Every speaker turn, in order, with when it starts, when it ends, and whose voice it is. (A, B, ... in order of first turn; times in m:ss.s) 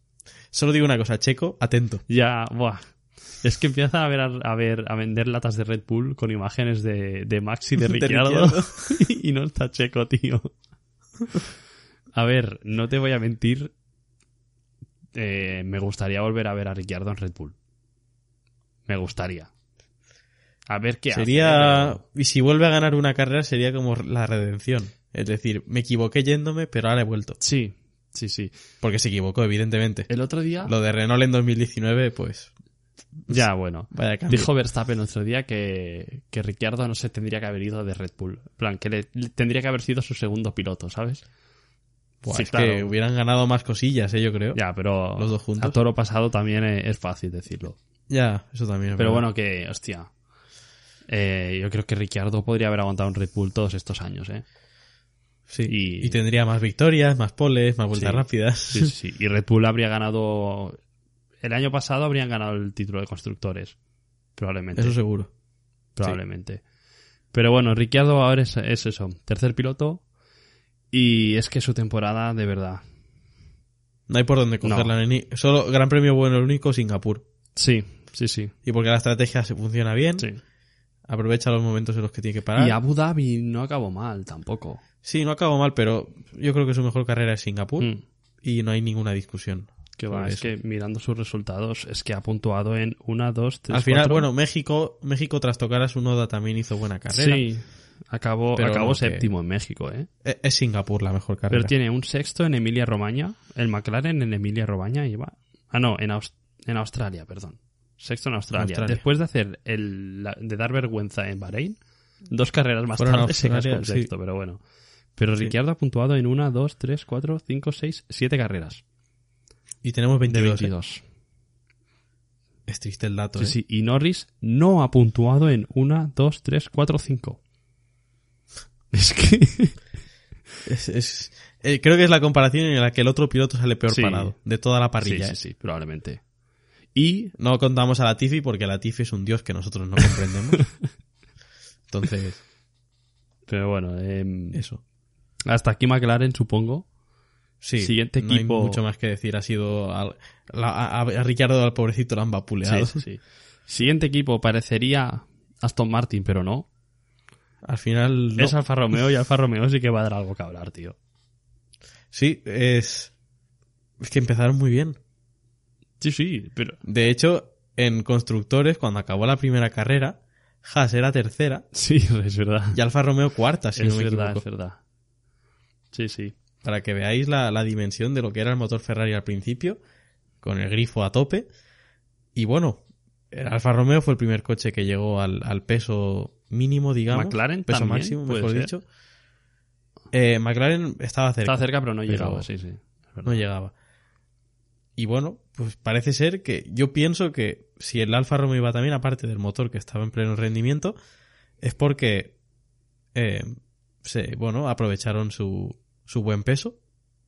0:00.5-0:02.0 A
0:02.1-0:10.5 B
0:07.8-0:08.7 A
0:12.1-0:13.7 B
0:15.1-0:17.5 B
0:18.9-0:19.5 B
0:20.7-0:22.0 B
0:21.1-0:27.4 A
0:27.4-0:28.5 B
0:28.8-0:30.1 A
0:30.1-0:30.7 B
0:30.6-0:32.5 A
0:33.3-0:34.5 A
0:33.3-0:41.2 B
0:42.2-0:44.6 A
0:42.3-0:42.9 B
0:44.5-0:47.8 B
0:45.1-0:45.8 A
0:48.1-0:49.2 A
0:49.0-0:50.1 B
0:51.1-0:54.4 B
0:55.5-0:58.9 A
0:55.6-0:56.2 B
0:57.9-1:00.8 B
1:01.4-1:03.8 B
1:04.4-1:05.0 B
1:04.7-1:05.3 A
1:06.0-1:06.6 B
1:07.3-1:10.0 B
1:10.9-1:12.8 B
1:14.1-1:17.2 A
1:14.6-1:14.9 B
1:17.6-1:18.5 B
1:18.6-1:20.3 A
1:21.1-1:22.8 A
1:22.6-1:24.8 B
1:25.0-1:27.9 A
1:28.4-1:30.5 A
1:30.0-1:34.3 B
1:33.7-1:37.5 A
1:37.1-1:40.1 B
1:38.6-1:39.3 A
1:40.2-1:41.7 A
1:41.5-1:51.8 B
1:48.5-1:49.0 A
1:52.3-1:54.6 B
1:53.0-1:54.1 A
1:55.2-1:58.8 B
1:59.8-2:00.7 A
2:00.3-2:01.0 B
2:02.7-2:03.6 A
2:03.4-2:07.4 B
2:08.9-2:09.8 B
2:10.6-2:15.4 A
2:13.9-2:14.3 B
2:15.0-2:16.2 B
2:16.9-2:17.3 B
2:17.4-2:20.7 A
2:21.9-2:22.4 A
2:23.5-2:24.6 B
2:24.5-2:24.8 A
2:25.4-2:26.8 B
2:27.6-2:33.0 A
2:27.8-2:28.8 B
2:32.6-2:36.7 B
2:37.6-2:38.6 A
2:38.4-2:40.9 B
2:42.1-2:43.1 A
2:44.0-2:45.0 A
2:46.0-2:46.8 B
2:46.8-2:51.6 A
2:51.7-2:52.8 B
2:52.7-2:54.4 A
2:53.8-2:54.8 B
2:55.9-2:56.3 B
2:56.6-2:59.8 A
3:00.4-3:01.5 A
3:02.3-3:08.8 A
3:07.1-3:08.7 B
3:10.1-3:12.5 A
3:11.4-3:13.4 B
3:13.2-3:13.7 A
3:15.0-3:21.0 A
3:21.6-3:22.3 A
3:23.1-3:26.8 A